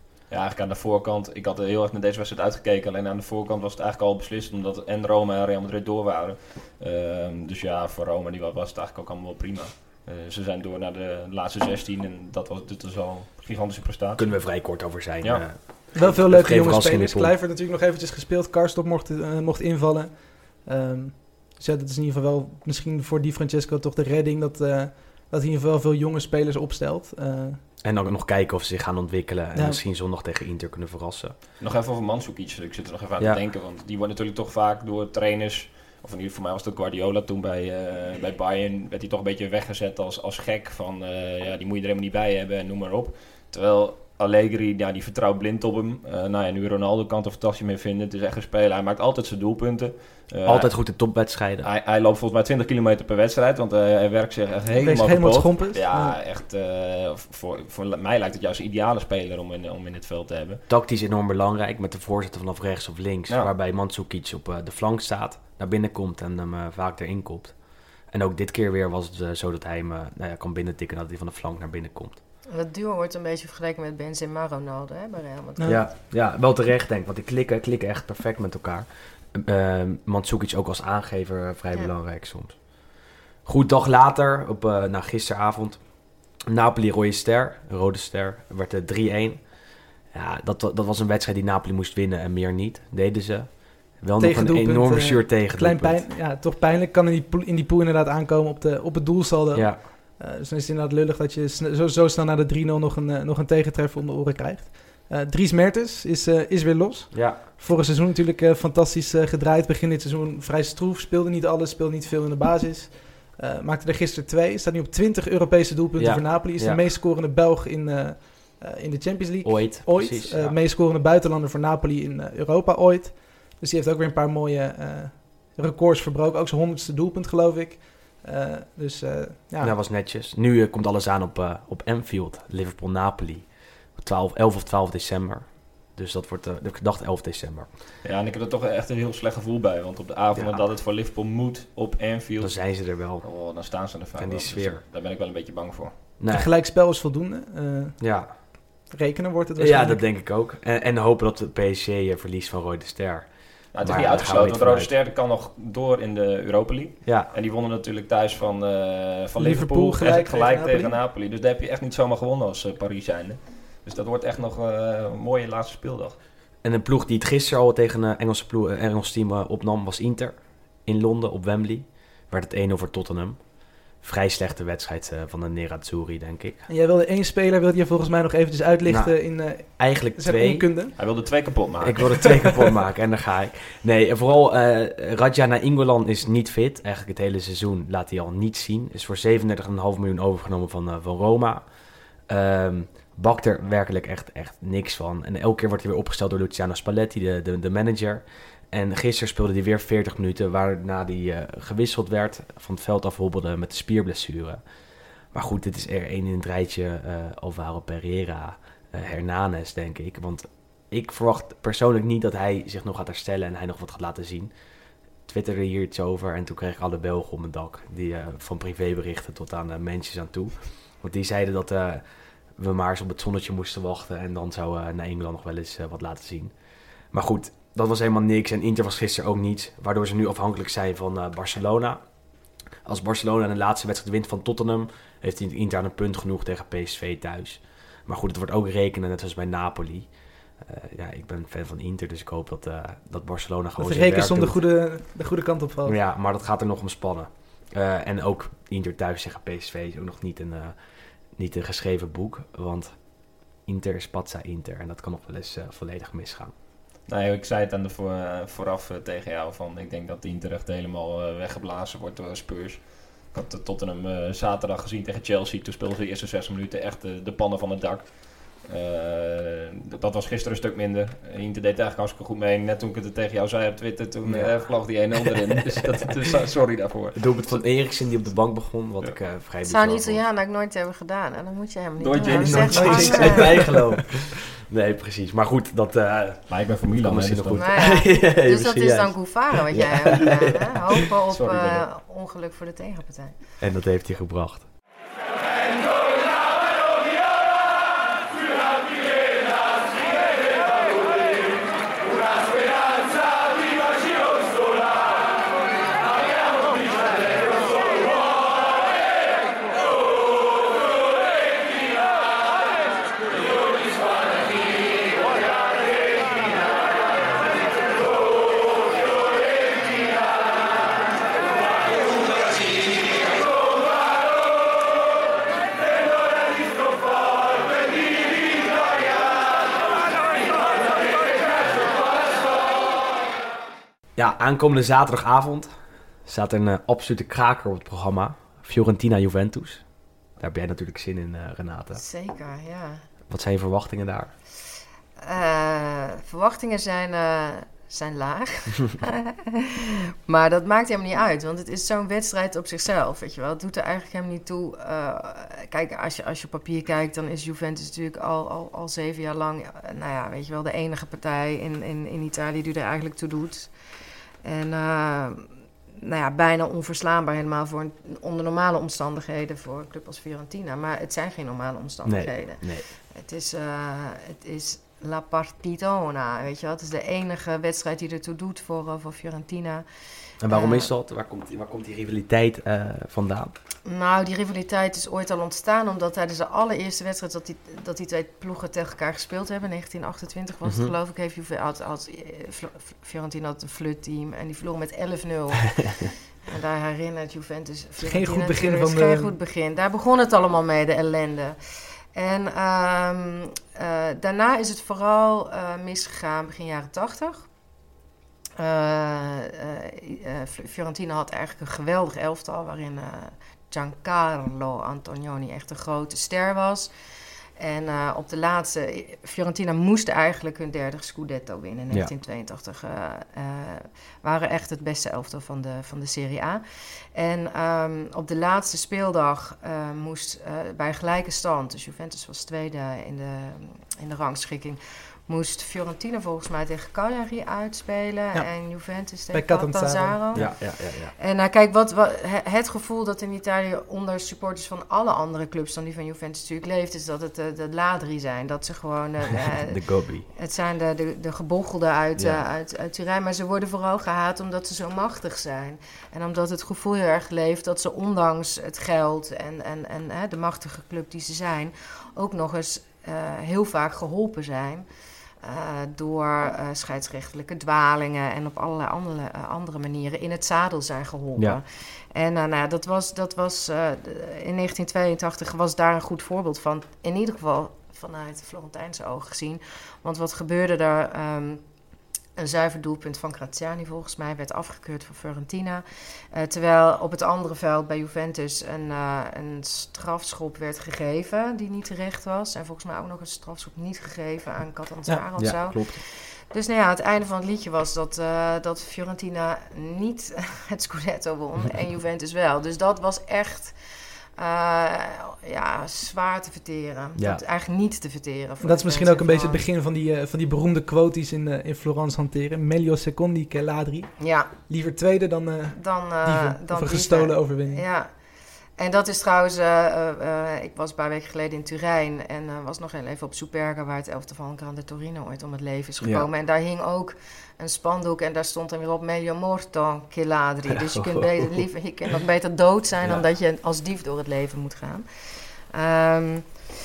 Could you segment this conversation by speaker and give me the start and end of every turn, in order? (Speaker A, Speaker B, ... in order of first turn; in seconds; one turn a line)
Speaker A: 0.3-15.6
Speaker B: 14.2-17.4
Speaker C: 15.9-27.6
Speaker B: 27.8-31.4
Speaker A: 31.6-50.7
Speaker B: 50.5-51.7
Speaker A: 51.6-60.6
Speaker C: 54.8-56.2
Speaker B: 60.7-72.2
Speaker D: 72.5-75.8
Speaker B: 75.6-82.8
Speaker B: 83.5-89.5
Speaker B: 90.1-96.2
Speaker C: 94.2-129.7
Speaker B: 99.5-99.9
Speaker B: 107.1-107.5
Speaker B: 116.0-116.8
Speaker B: 119.4-120.6
Speaker B: 129.6-137.7
Speaker A: 138.0-145.9
Speaker B: 140.3-140.7
Speaker B: 142.4-143.3
Speaker B: 144.1-144.8
Speaker B: 146.2-146.5
Speaker C: 146.3-150.0
Speaker B: 148.0-148.3
Speaker B: 149.6-154.9
Speaker A: 153.7-166.2
Speaker B: 157.1-157.3
Speaker C: 159.4-160.9
Speaker B: 166.6-176.7
Speaker C: 176.7-180.9
Speaker B: 178.8-181.1
Speaker A: 181.0-182.4
Speaker B: 181.8-191.7
Speaker B: 192.3-204.6
Speaker B: 205.3-214.5
Speaker B: 215.3-226.5
Speaker B: 227.1-232.0
Speaker B: 232.8-244.6
Speaker C: 243.8-246.0
Speaker B: 245.8-250.8
Speaker B: 251.4-253.1
Speaker B: 253.7-256.5
Speaker A: 257.1-277.6
Speaker B: 274.2-275.4
Speaker B: 277.1-280.2
Speaker D: 279.6-283.7
Speaker A: 282.0-283.1
Speaker B: 282.2-290.7
Speaker C: 282.7-283.9
Speaker A: 286.4-287.6
Speaker D: 287.6-293.4
Speaker A: 291.3-291.9
Speaker B: 293.6-294.7
Speaker B: 334.2-335.7
Speaker B: 336.2-342.0
Speaker D: 341.9-343.0
Speaker B: 343.3-344.3
Speaker D: 345.2-363.7
Speaker D: 364.4-379.8
Speaker B: 372.1-372.9
Speaker B: 380.4-383.5
Speaker D: 380.5-380.9
Speaker D: 383.9-401.6
Speaker B: 390.6-390.9
Speaker C: 398.0-399.3
Speaker D: 402.1-407.5
Speaker D: 408.6-416.9
Speaker D: 417.6-426.6
Speaker D: 427.1-440.6
Speaker C: 439.3-440.4
Speaker B: 440.3-441.1
Speaker D: 441.2-464.9
Speaker B: 449.5-450.3
Speaker B: 452.2-452.4
Speaker D: 465.4-481.6
Speaker D: 482.4-503.7
Speaker B: 495.4-496.0
Speaker D: 504.4-509.6
Speaker B: 507.2-507.4
Speaker C: 508.6-514.1
Speaker D: 514.2-514.5
Speaker C: 514.7-517.8
Speaker D: 515.8-518.1
Speaker D: 518.8-535.0
Speaker B: 526.0-526.3
Speaker B: 530.7-531.6
Speaker D: 535.7-536.5